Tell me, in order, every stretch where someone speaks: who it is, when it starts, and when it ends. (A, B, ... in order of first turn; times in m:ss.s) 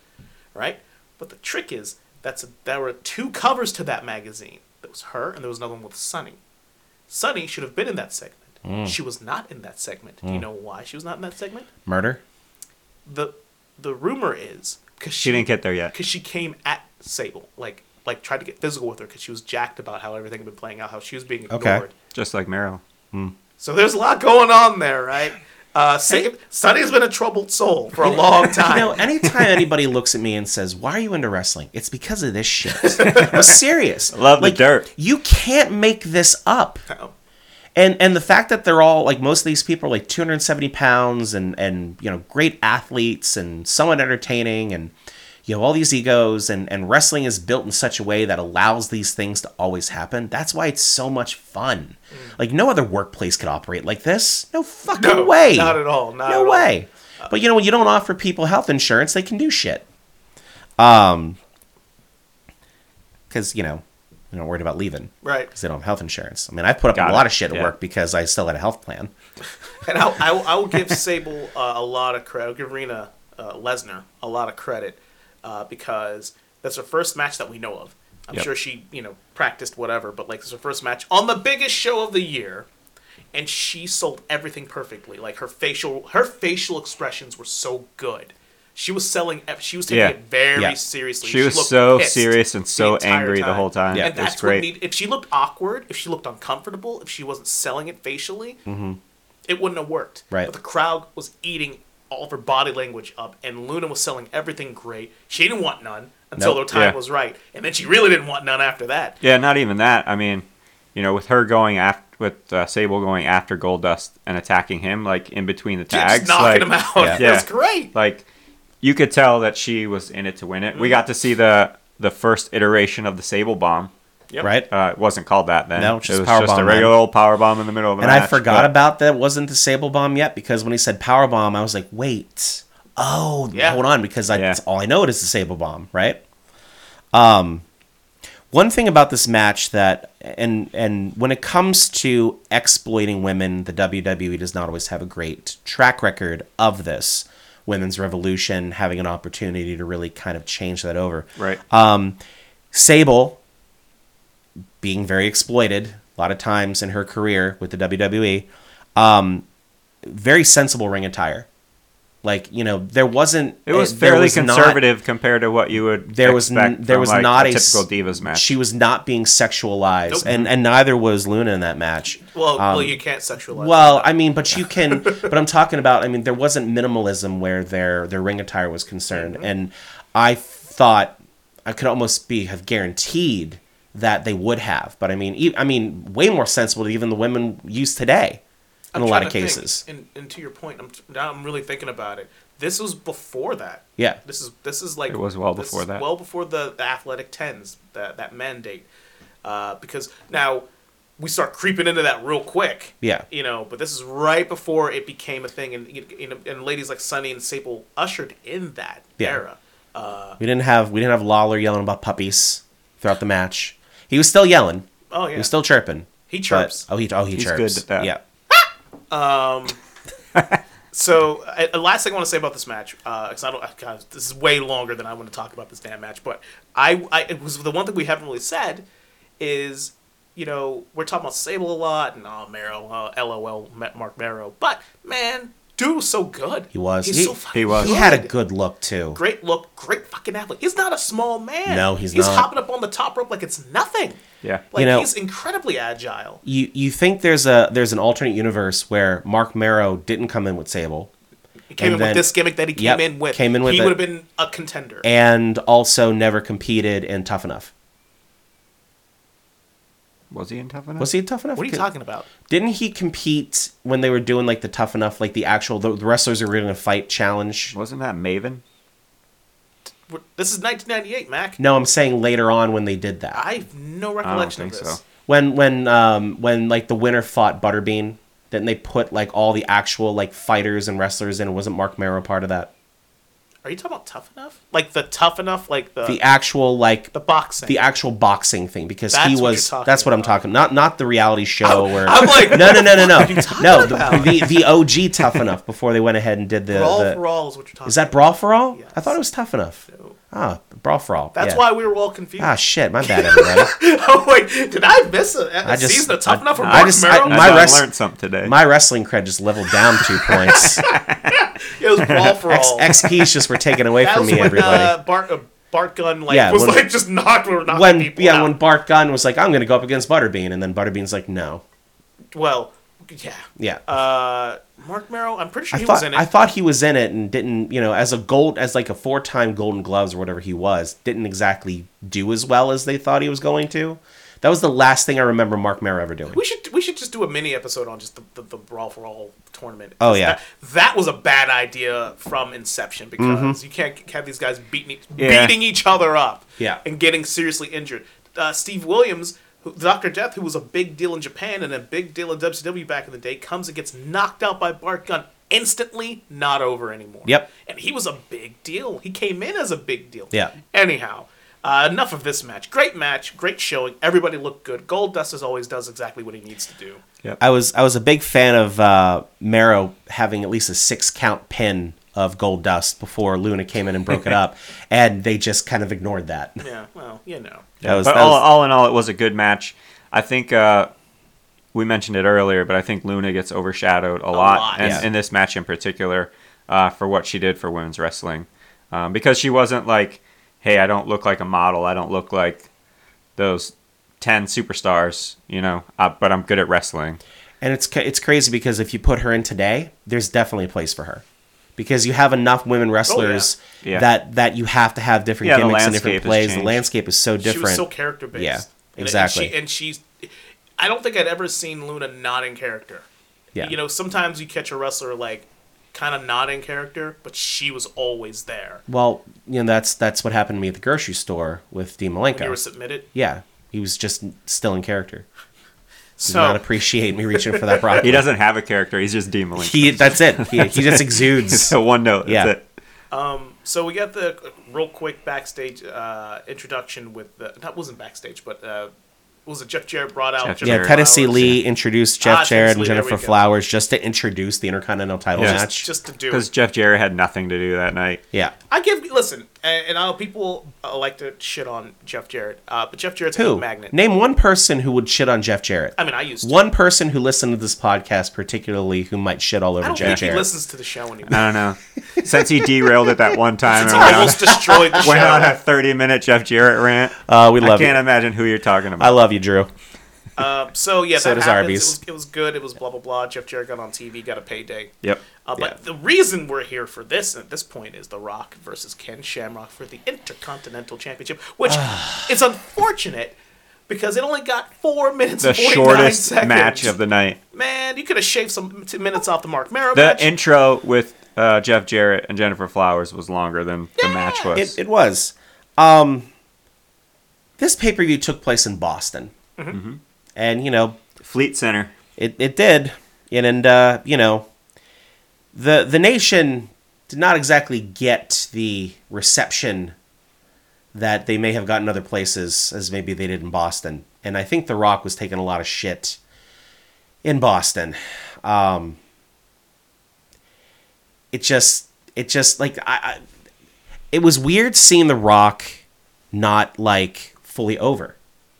0:00.5-0:06.4 A
0:07.1-0:11.7 A
0:08.6-0:08.9 B
0:11.8-0:12.2 B
0:13.0-0:21.9 A
0:15.2-0:15.9 C
0:21.5-0:21.8 B
0:22.1-0:22.8 C
0:23.6-0:29.0 A
0:28.0-0:36.8 B
0:29.2-0:29.6 C
0:32.8-0:33.4 A
0:33.0-0:33.5 C
0:34.1-0:34.9 C
0:37.8-0:44.9 B
0:45.4-0:59.8 B
0:54.9-0:57.3 A
1:00.8-1:01.4 B
1:03.3-1:09.1 B
1:05.2-1:05.5 A
1:06.9-1:07.7 C
1:09.8-1:22.7 A
1:23.3-1:38.6 A
1:29.9-1:30.2 C
1:31.2-1:34.7 C
1:38.6-1:39.0 B
1:39.5-1:49.2 A
1:46.4-1:46.6 B
1:46.7-1:47.0 C
1:49.2-1:58.2 C
1:55.9-1:57.9 A
1:58.8-2:03.9 C
2:00.7-2:01.0 A
2:04.4-2:04.7 B
2:04.7-2:08.7 C
2:05.8-2:07.0 B
2:08.0-2:16.2 B
2:13.5-2:13.8 A
2:14.3-2:14.6 C
2:17.1-2:17.6 B
2:18.5-2:32.2 B
2:32.7-2:33.4 B
2:34.8-2:39.4 B
2:40.0-2:41.5 B
2:42.2-2:44.8 B
2:43.7-2:48.5 C
2:46.1-2:53.0 B
2:52.2-2:55.3 A
2:53.5-3:08.4 B
2:59.1-2:59.5 A
3:08.9-3:18.9 A
3:08.9-3:09.8 B
3:15.1-3:16.0 C
3:19.4-3:20.6 A
3:21.2-3:30.4 A
3:30.4-3:38.2 B
3:35.1-3:35.5 A
3:36.3-3:36.8 A
3:37.3-3:38.1 C
3:39.1-3:39.8 A
3:40.9-3:48.8 A
3:49.4-3:58.3 A
3:56.7-3:59.2 B
3:57.5-3:58.0 C
3:59.2-4:06.4 A
4:01.6-4:02.5 B
4:04.7-4:05.1 B
4:06.4-4:11.1 B
4:11.7-4:15.0 A
4:11.8-4:14.0 B
4:15.0-4:17.7 B
4:20.3-4:21.1 C
4:21.0-4:21.8 B
4:21.6-4:22.3 A
4:22.5-4:27.7 B
4:27.7-4:28.6 C
4:30.1-4:31.6 A
4:31.6-4:33.4 B
4:33.3-4:35.0 A
4:34.2-4:35.0 C
4:35.2-4:42.7 B
4:43.6-4:46.2 A
4:46.0-4:47.1 B
4:47.1-4:47.7 A
4:47.6-4:57.2 B
4:49.1-4:50.4 A
4:51.6-4:54.6 A
4:56.7-4:59.2 A
4:57.8-5:01.6 B
4:59.9-5:00.1 A
5:01.4-5:07.8 A
5:02.4-5:03.7 B
5:05.6-5:07.9 B
5:06.6-5:08.5 C
5:08.4-5:10.8 B
5:10.3-5:13.1 A
5:10.8-5:11.3 C
5:12.0-5:12.4 C
5:12.5-5:14.9 B
5:13.8-5:18.5 A
5:16.3-5:16.8 B
5:17.7-5:21.6 B
5:22.3-5:26.3 A
5:25.7-5:36.4 B
5:36.3-6:07.0 A
5:40.0-5:40.4 B
5:43.2-5:43.6 B
5:45.2-5:45.5 C
6:07.4-6:16.6 B
6:16.6-6:17.8 A
6:17.8-6:18.5 B
6:17.8-6:20.9 C
6:21.7-6:32.7 C
6:24.3-6:25.1 A
6:24.8-6:25.0 B
6:33.4-6:37.2 C
6:37.6-6:41.2 B
6:41.8-6:49.5 B
6:43.1-6:43.5 A
6:45.4-6:46.8 C
6:47.4-6:53.0 A
6:53.6-6:58.8 A
6:58.9-7:02.6 B
7:02.3-7:03.1 A
7:03.1-7:05.2 B
7:06.2-7:06.6 A
7:06.2-7:08.2 B
7:07.4-7:07.9 A
7:08.0-7:12.6 C
7:09.6-7:12.5 B
7:13.1-7:18.9 A
7:19.4-7:21.6 A
7:20.4-7:21.6 C
7:20.6-7:25.9 B
7:22.2-7:23.4 A
7:25.4-7:25.6 C
7:25.4-7:26.4 A
7:26.3-7:28.2 C
7:28.7-7:33.9 A
7:33.3-7:40.5 B
7:36.0-7:36.7 A
7:39.8-7:41.4 A
7:40.0-7:40.2 C
7:41.3-7:49.2 C
7:42.1-7:42.4 B
7:43.7-7:45.6 A
7:44.4-7:45.0 B
7:47.3-7:48.0 B
7:49.0-7:49.7 B
7:50.4-7:54.9 A
7:51.2-7:52.0 B
7:55.4-8:03.4 A
8:01.7-8:02.2 B
8:03.9-8:06.9 A
8:05.4-8:07.4 C
8:07.5-8:10.3 A
8:09.9-8:14.8 C
8:14.0-8:14.5 A
8:14.5-8:16.3 B
8:17.6-8:19.3 B
8:19.7-8:20.0 C
8:20.4-8:21.0 B
8:21.2-8:21.9 C
8:22.2-8:24.5 B
8:25.5-8:29.9 B
8:30.9-8:36.2 B
8:37.2-8:39.0 B
8:41.3-8:43.2 B
8:44.1-8:45.8 B
8:46.3-8:48.2 B